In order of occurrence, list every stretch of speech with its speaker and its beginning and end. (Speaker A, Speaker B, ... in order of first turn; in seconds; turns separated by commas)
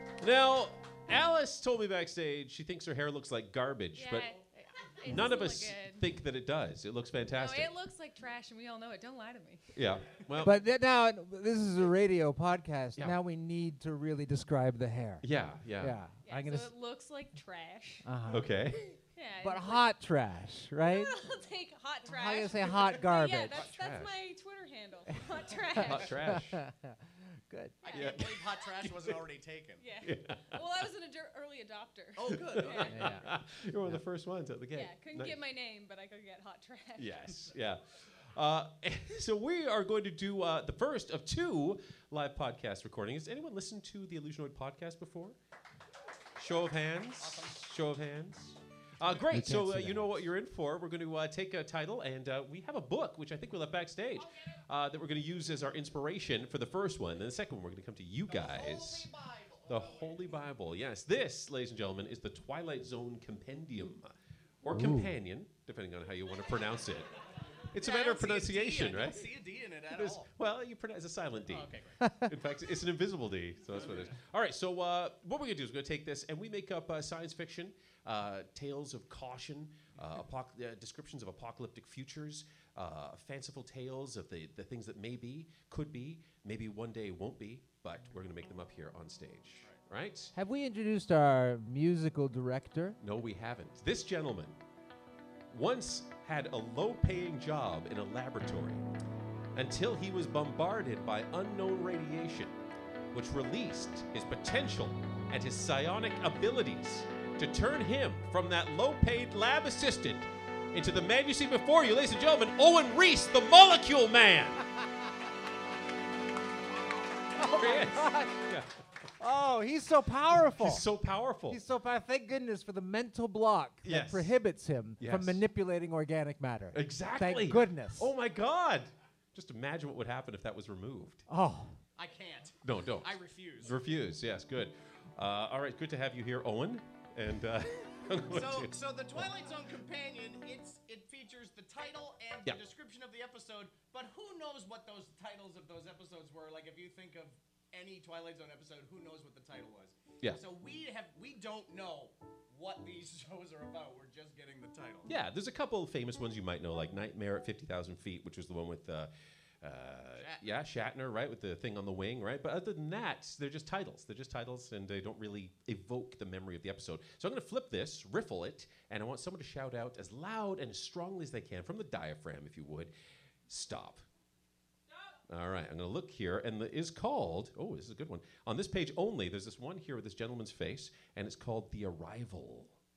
Speaker A: 0.2-4.3, Speaker B: 4.0-6.1, Speaker A: 5.0-7.7, Speaker B: 7.3-9.6, Speaker A: 9.8-10.6, Speaker C: 10.4-15.3, Speaker A: 15.2-16.0, Speaker C: 15.8-16.7, Speaker B: 16.2-18.1, Speaker C: 18.1-18.6, Speaker A: 18.3-18.8, Speaker B: 19.1-19.9, Speaker C: 19.4-21.1, Speaker B: 20.8-26.1, Speaker C: 22.1-23.6, Speaker A: 23.5-24.1, Speaker A: 25.8-26.6, Speaker C: 25.9-27.0, Speaker C: 27.5-27.8, Speaker D: 27.8-29.8, Speaker B: 27.9-28.2, Speaker A: 27.9-29.2, Speaker B: 29.8-33.0, Speaker A: 30.0-30.6, Speaker D: 32.2-33.1, Speaker A: 32.3-35.4, Speaker C: 32.9-33.3, Speaker B: 34.7-37.5, Speaker A: 37.0-37.8, Speaker A: 38.4-45.4, Speaker A: 46.4-59.1, Speaker D: 47.2-47.6, Speaker C: 49.3-50.1, Speaker D: 58.3-60.0, Speaker A: 59.7-64.1, Speaker A: 64.6-67.1, Speaker C: 64.7-65.1, Speaker A: 67.7-69.3, Speaker D: 67.8-70.3, Speaker A: 69.9-90.3, Speaker D: 71.5-72.0, Speaker C: 72.0-72.3, Speaker D: 73.8-74.1, Speaker C: 90.3-93.0, Speaker A: 93.0-94.6, Speaker A: 95.5-98.8, Speaker A: 99.5-102.6, Speaker A: 103.1-114.7, Speaker C: 117.3-118.5, Speaker A: 117.5-118.7, Speaker C: 119.2-120.9, Speaker A: 120.5-121.6, Speaker C: 121.5-128.1, Speaker A: 123.8-124.3, Speaker A: 125.0-125.4, Speaker A: 126.7-131.2, Speaker C: 131.3-131.8, Speaker D: 132.0-133.8, Speaker A: 132.6-138.7, Speaker D: 138.3-155.2, Speaker A: 155.1-159.1, Speaker A: 159.6-172.9, Speaker D: 160.2-160.4, Speaker A: 173.5-174.1, Speaker A: 175.3-182.8